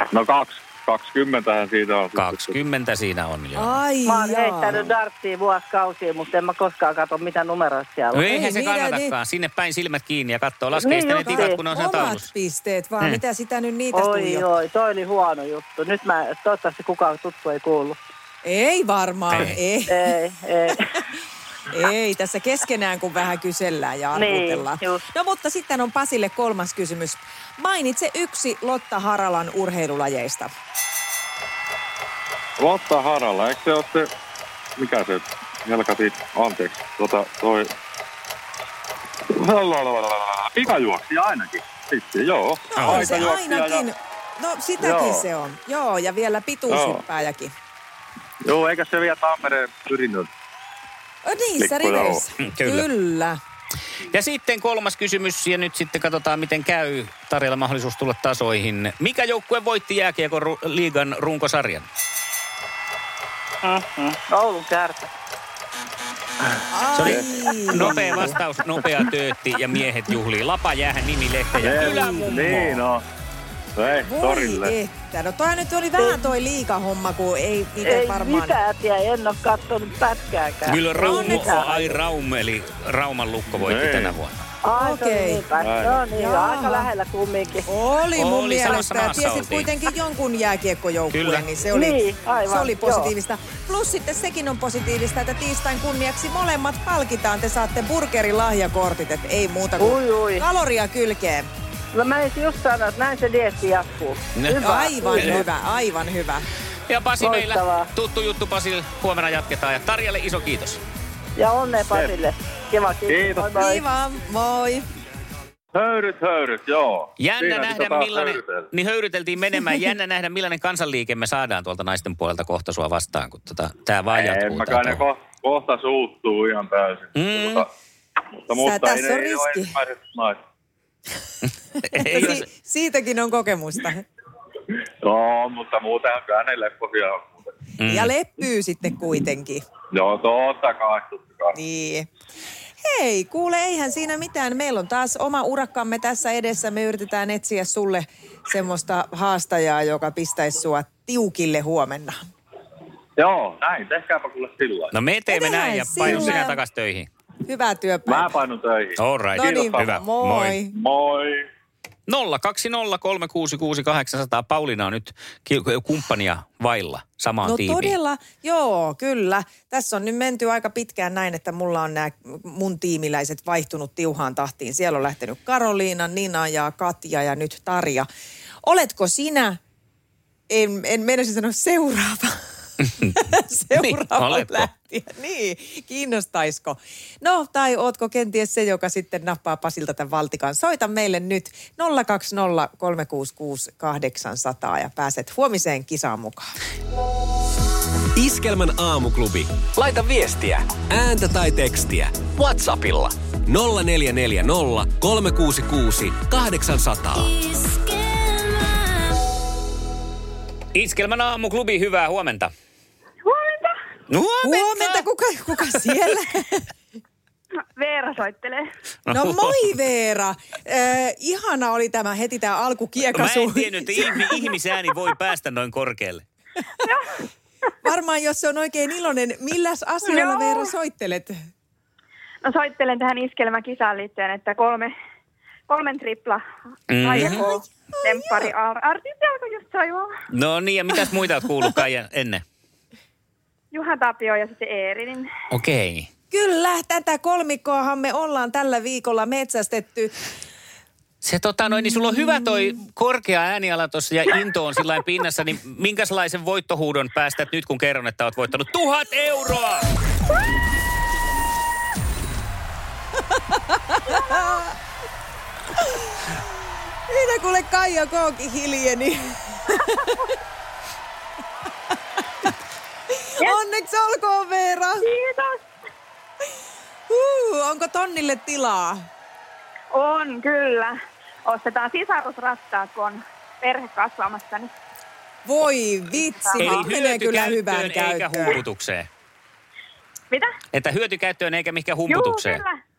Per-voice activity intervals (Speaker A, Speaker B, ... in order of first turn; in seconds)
Speaker A: 0.1-2.6, 32.6-34.1, 34.8-37.7, 39.3-43.9, 44.8-45.3, 46.7-47.0, 48.4-50.3, 51.6-52.2, 67.0-67.8, 71.6-73.0, 73.8-74.7, 83.6-84.2, 85.5-86.1, 111.7-112.2, 113.0-113.6, 115.7-118.7, 124.1-127.7, 128.5-130.4, 135.0-137.5, 139.9-141.6, 153.2-154.9, 156.0-156.4, 158.1-160.0, 160.7-161.5
Speaker B: 2.1-3.8, 8.1-12.3, 19.3-19.6, 42.8-43.1, 52.4-52.9, 54.1-61.9, 66.9-72.8, 80.7-84.4, 88.2-89.7, 91.1-91.5, 105.2-105.4, 106.9-110.8, 117.2-125.0, 127.1-127.7, 131.9-132.4, 137.8-138.1, 154.9-157.1, 159.0-160.6, 162.1-168.0, 183.8-184.7, 210.7-212.5, 214.1-215.0, 219.1-219.7, 223.1-226.2, 236.9-237.5, 240.3-242.4, 245.5-246.1, 251.2-259.8, 286.6-289.1, 290.7-292.6
Speaker C: 3.5-4.8, 8.3-9.1, 11.1-14.5, 18.4-20.1, 21.7-30.5, 42.7-47.5, 51.2-53.4, 66.7-68.3, 74.0-78.6, 84.7-85.5, 86.1-86.9, 87.7-101.5, 104.6-106.5, 113.5-114.8, 128.6-129.8, 132.0-134.0, 137.8-139.6, 141.5-142.1, 142.8-152.2, 155.3-156.6, 157.4-158.4, 159.3-160.7, 167.4-178.1, 178.6-179.6, 180.5-196.5, 214.4-216.7, 219.1-224.4, 227.8-231.4, 237.2-237.5, 238.0-238.5, 246.3-250.1, 263.5-264.6, 267.1-270.3, 273.1-275.0, 277.1-279.0, 285.4-288.6
Speaker D: 4.0-8.4, 10.7-11.6, 13.9-18.0, 19.9-20.8, 24.1-25.0, 63.6-65.1, 71.8-72.3, 76.0-76.3, 77.8-82.0, 84.6-87.7, 91.7-93.1, 99.8-100.4, 101.9-105.5, 107.2-107.9, 111.3-113.8
Speaker E: 198.2-207.6
Speaker F: 213.2-213.7, 217.8-218.6, 226.8-227.2, 230.1-230.7, 232.4-234.9, 235.7-236.4, 236.9-240.1, 243.7-245.3, 264.2-264.5, 275.0-275.6, 279.9-280.9, 281.4-284.7, 286.4-286.8, 292.1-292.8